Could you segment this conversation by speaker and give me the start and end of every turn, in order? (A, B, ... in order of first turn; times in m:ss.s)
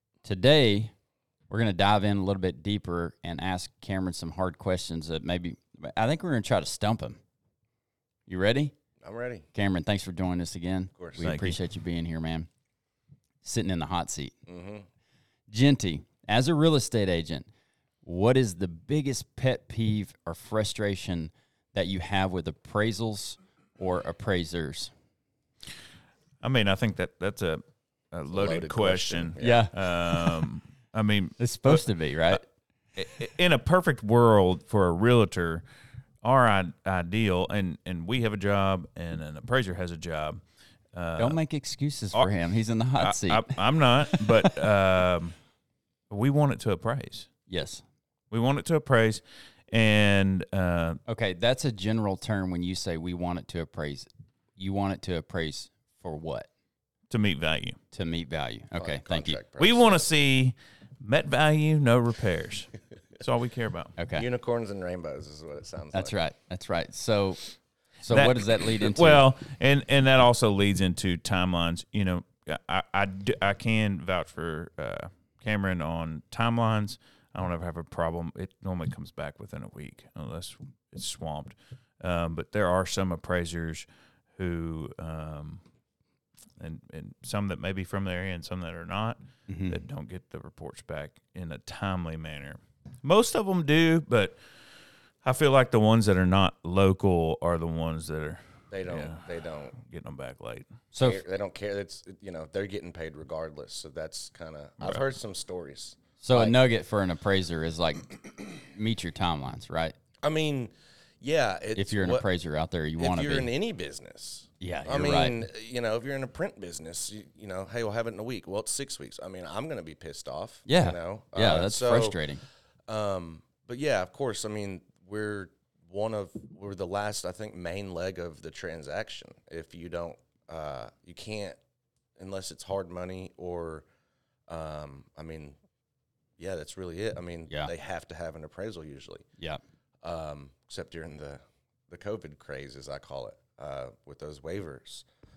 0:00.2-0:00.9 A
0:01.5-0:07.2 A
0:08.3-0:08.7 A
0:09.0-0:09.5 B
0:09.5-0:12.5 A
0:11.0-0:11.3 B
0:11.2-0:11.6 C
0:13.4-0:14.3 A
0:14.5-0:14.9 B
0:15.5-0:17.5 A
0:18.0-0:24.9 A
0:26.4-0:32.4 C
0:28.3-0:29.7 B
0:29.4-0:29.7 A
0:31.4-0:32.4 A
0:33.0-0:35.6 C
0:36.2-0:40.4 C
0:40.9-0:41.4 C
0:41.2-0:43.6 A
0:43.0-0:45.3 C
0:44.1-0:44.6 A
0:46.1-0:47.3 C
0:47.5-0:47.8 A
0:48.3-0:51.0 C
0:51.1-0:56.5 A
0:57.1-0:57.8 C
0:57.9-0:59.4 A
0:58.7-1:00.0 B
0:59.6-1:03.9 C
1:04.0-1:04.2 A
1:04.1-1:06.2 B
1:05.9-1:07.5 A
1:08.0-1:09.2 A
1:08.1-1:25.6 C
1:26.6-1:34.4 C
1:29.5-1:29.8 A
1:35.2-1:40.7 C
1:38.7-1:39.7 B
1:40.9-1:41.2 A
1:41.0-1:46.6 B
1:46.2-1:49.9 A
1:50.2-1:52.2 B
1:51.7-1:53.5 A
1:53.0-2:02.2 B
1:54.6-1:55.4 A
2:00.7-2:02.4 A
2:02.9-2:11.6 B
2:12.2-2:13.8 B
2:14.5-2:15.6 B
2:16.4-2:19.2 B
2:20.0-2:25.0 B